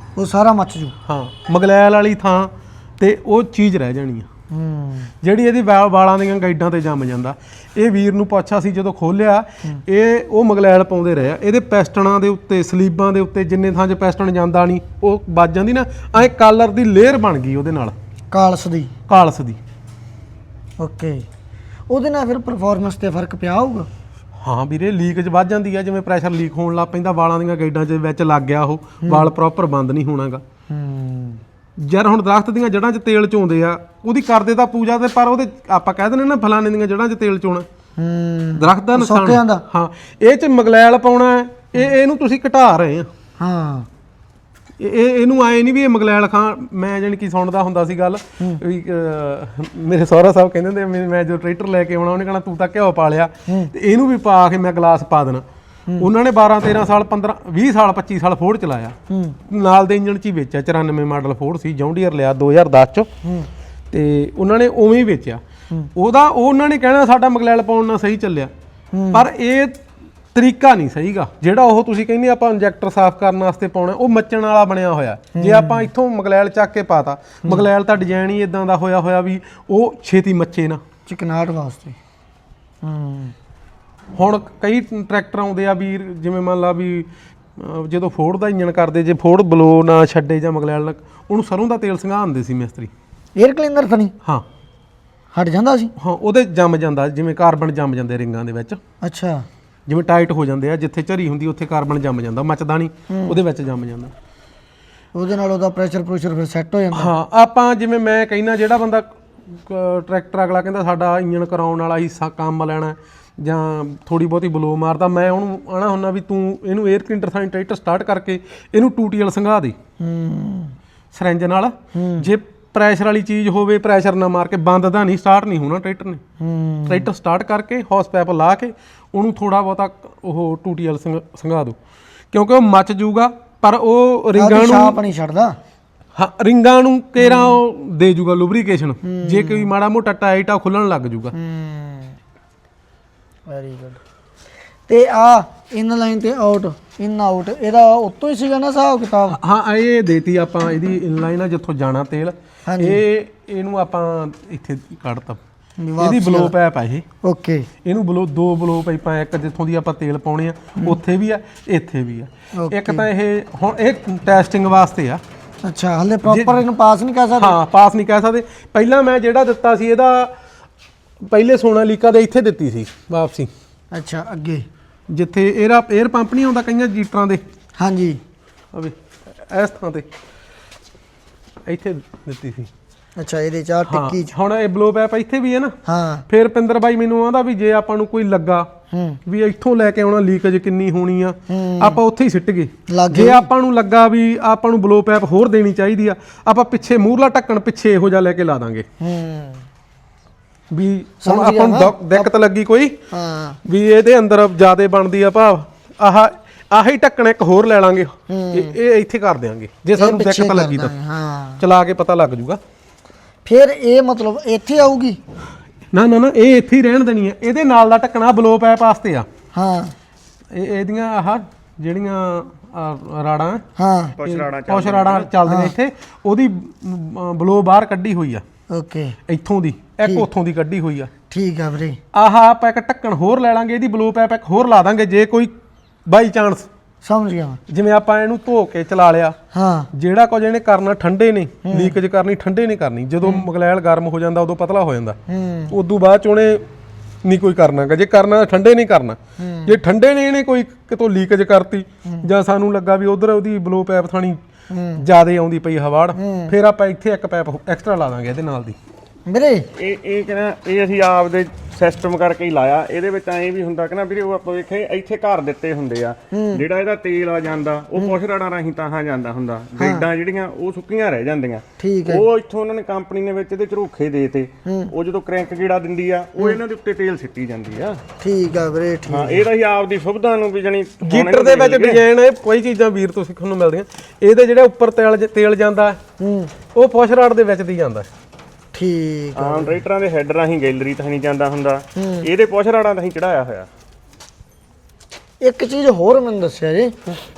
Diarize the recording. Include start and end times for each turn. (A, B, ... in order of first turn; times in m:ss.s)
0:00.2-0:01.0 A
0:01.0-0:04.3 B
0:04.5-0:05.1 A
0:05.2-0:17.9 B
0:18.3-0:18.9 A
0:19.1-0:19.6 B
0:20.8-0:21.3 A
0:21.9-0:23.9 A
0:24.4-0:30.4 B
0:29.0-0:29.3 A
0:30.7-0:31.4 A
0:31.8-0:37.6 B
0:38.0-0:39.6 A
0:38.6-0:43.1 B
0:43.4-0:43.9 A
0:44.8-0:55.4 B
0:53.5-0:53.7 A
0:56.0-0:59.0 B
0:59.1-0:59.4 A
0:59.5-1:03.1 B
1:03.2-1:03.5 A
1:03.9-1:05.4 B
1:05.9-1:08.5 B
1:08.9-1:09.2 A
1:09.1-1:09.8 B
1:10.3-1:20.8 B
1:15.3-1:15.9 A
1:21.0-1:22.0 A
1:22.8-1:23.3 A
1:24.1-1:32.9 B
1:33.4-1:34.1 A
1:35.3-1:35.9 A
1:36.0-1:38.8 B
1:39.0-1:39.4 A
1:39.9-1:44.1 B
1:43.1-1:43.4 A
1:45.1-1:47.1 A
1:46.9-1:59.8 B
2:00.0-2:00.7 A
2:01.1-2:06.2 B
2:01.9-2:02.3 A
2:06.4-2:07.1 A
2:06.9-2:11.8 B
2:12.3-2:15.0 B
2:14.4-2:15.6 A
2:16.1-2:21.3 B
2:17.2-2:17.6 A
2:19.0-2:19.7 A
2:21.3-2:22.2 A
2:23.5-2:24.0 A
2:24.9-2:29.4 A
2:29.4-2:35.4 B
2:32.6-2:33.0 A
2:35.8-2:36.5 A
2:36.0-2:37.0 B
2:37.2-2:37.7 A
2:37.8-2:45.2 B
2:42.5-2:43.1 A
2:45.6-2:47.5 A
2:46.2-2:46.6 B
2:47.4-2:50.3 B
2:51.2-2:53.5 B
2:53.9-2:54.6 A
2:55.1-2:57.4 B
2:57.8-2:58.2 A
2:58.7-3:00.1 B
3:01.6-3:02.7 B
3:03.2-3:04.3 A
3:03.9-3:05.8 B
3:05.8-3:06.2 A
3:06.3-3:08.7 B
3:08.9-3:09.2 A
3:09.2-3:18.8 B
3:11.5-3:12.0 A
3:12.9-3:13.5 A
3:19.0-3:19.6 A
3:20.7-3:23.0 B
3:21.2-3:22.3 A
3:23.1-3:23.6 A
3:23.6-3:30.9 B
3:28.3-3:28.8 A
3:30.0-3:31.6 A
3:31.6-3:32.6 B
3:33.4-3:35.2 A
3:35.9-3:39.3 B
3:39.5-3:39.9 A
3:40.5-3:43.6 B
3:43.8-3:44.2 A
3:44.2-3:45.3 C
3:44.2-3:48.4 B
3:45.4-3:45.7 A
3:48.7-3:49.2 A
3:49.3-3:51.1 B
3:51.3-3:52.0 A
3:52.1-3:55.5 B
3:56.0-3:56.7 B
3:57.0-3:57.6 A
3:57.7-3:59.4 B
3:59.5-3:59.9 A
3:59.9-4:05.2 B
4:01.6-4:02.0 A
4:05.3-4:05.7 A
4:05.7-4:06.6 B
4:07.2-4:14.4 B
4:09.4-4:09.8 A
4:14.7-4:15.0 A
4:15.0-4:18.8 B
4:16.1-4:16.5 A
4:19.3-4:19.7 A
4:19.8-4:38.0 C
4:26.3-4:26.6 A
4:29.8-4:30.0 A
4:31.8-4:32.2 A
4:34.6-4:34.9 A
4:38.2-4:39.4 A
4:39.1-4:42.0 C
4:41.0-4:46.0 B
4:46.2-4:46.5 A
4:46.7-4:48.1 B
4:48.7-4:49.8 A
4:49.4-4:53.7 C
4:51.9-4:52.3 A
4:55.4-4:57.0 A